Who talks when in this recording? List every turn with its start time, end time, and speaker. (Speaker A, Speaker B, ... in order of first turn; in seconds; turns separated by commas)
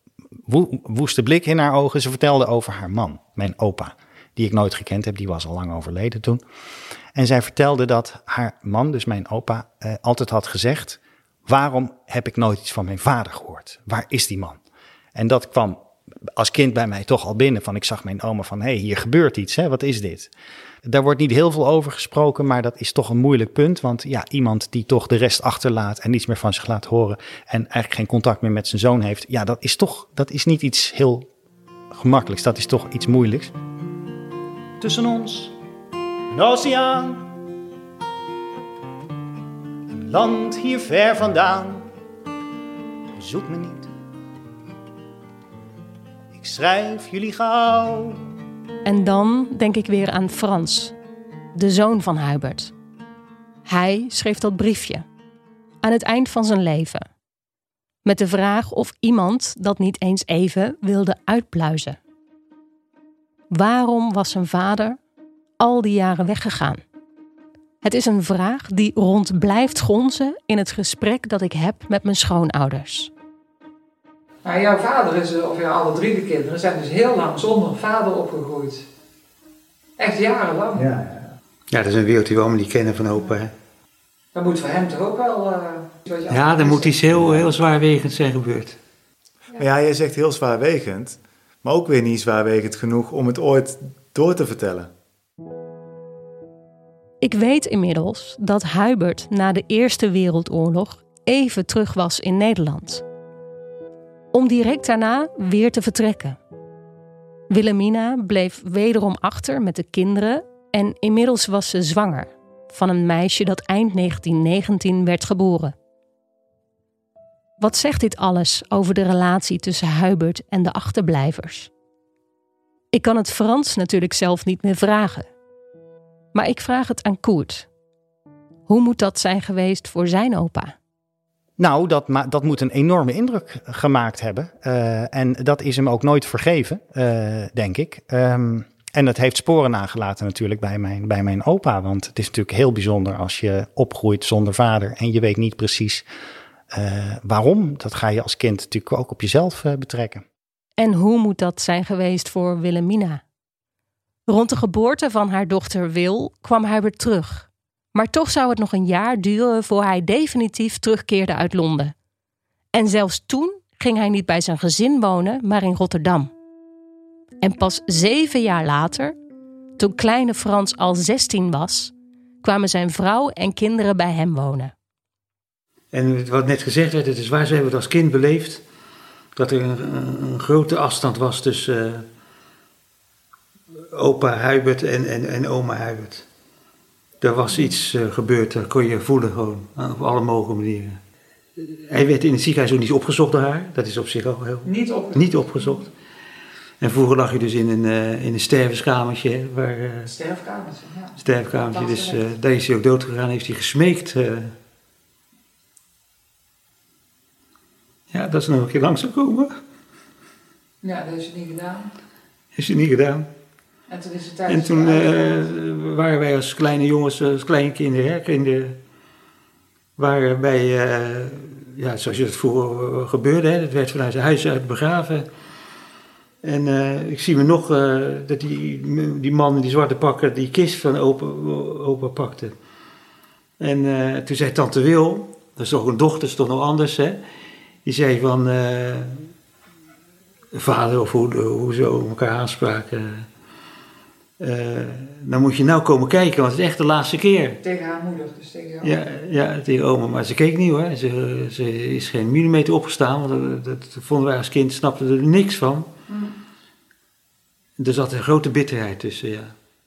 Speaker A: 0.5-6.4, Speaker A: 7.1-14.6, Speaker A: 15.1-15.8, Speaker A: 16.4-20.3, Speaker A: 20.8-31.3, Speaker A: 31.9-33.5, Speaker A: 34.8-35.5, Speaker A: 36.3-37.3, Speaker A: 39.9-41.9, Speaker A: 43.2-43.9, Speaker A: 46.3-48.2, Speaker B: 48.8-50.9, Speaker B: 51.5-52.7, Speaker B: 53.6-55.0, Speaker B: 55.8-57.0, Speaker B: 58.0-62.0, Speaker B: 63.5-65.0, Speaker B: 65.6-66.8, Speaker B: 67.8-73.1, Speaker C: 74.4-78.8, Speaker C: 80.0-81.0, Speaker D: 80.8-81.3, Speaker E: 81.7-83.5, Speaker C: 84.3-87.1, Speaker E: 86.3-88.8, Speaker D: 89.5-94.9, Speaker B: 97.2-103.0, Speaker B: 104.3-106.4, Speaker B: 107.5-115.7, Speaker B: 117.6-121.7, Speaker B: 122.9-125.3, Speaker B: 126.3-127.7, Speaker B: 128.7-130.8, Speaker A: 131.6-146.0, Speaker A: 146.7-150.2, Speaker B: 150.8-153.2, Speaker B: 154.3-161.9, Speaker B: 162.7-166.3, Speaker B: 167.4-169.2, Speaker B: 169.8-174.7, Speaker E: 175.9-178.6, Speaker E: 179.3-182.1, Speaker E: 183.9-186.2, Speaker E: 187.2-191.0, Speaker E: 191.6-195.9, Speaker C: 194.6-195.9, Speaker E: 196.8-200.1, Speaker C: 200.1-202.2, Speaker E: 201.2-204.5, Speaker E: 208.1-209.6, Speaker C: 210.8-211.9, Speaker E: 212.5-213.3, Speaker C: 213.9-215.5, Speaker E: 214.4-218.8, Speaker E: 220.0-225.3, Speaker E: 226.4-232.5, Speaker E: 233.6-237.2, Speaker E: 237.8-239.3, Speaker E: 240.5-243.3, Speaker E: 244.4-247.6, Speaker C: 247.6-248.9, Speaker E: 248.8-255.9, Speaker C: 256.1-256.3, Speaker E: 257.8-259.5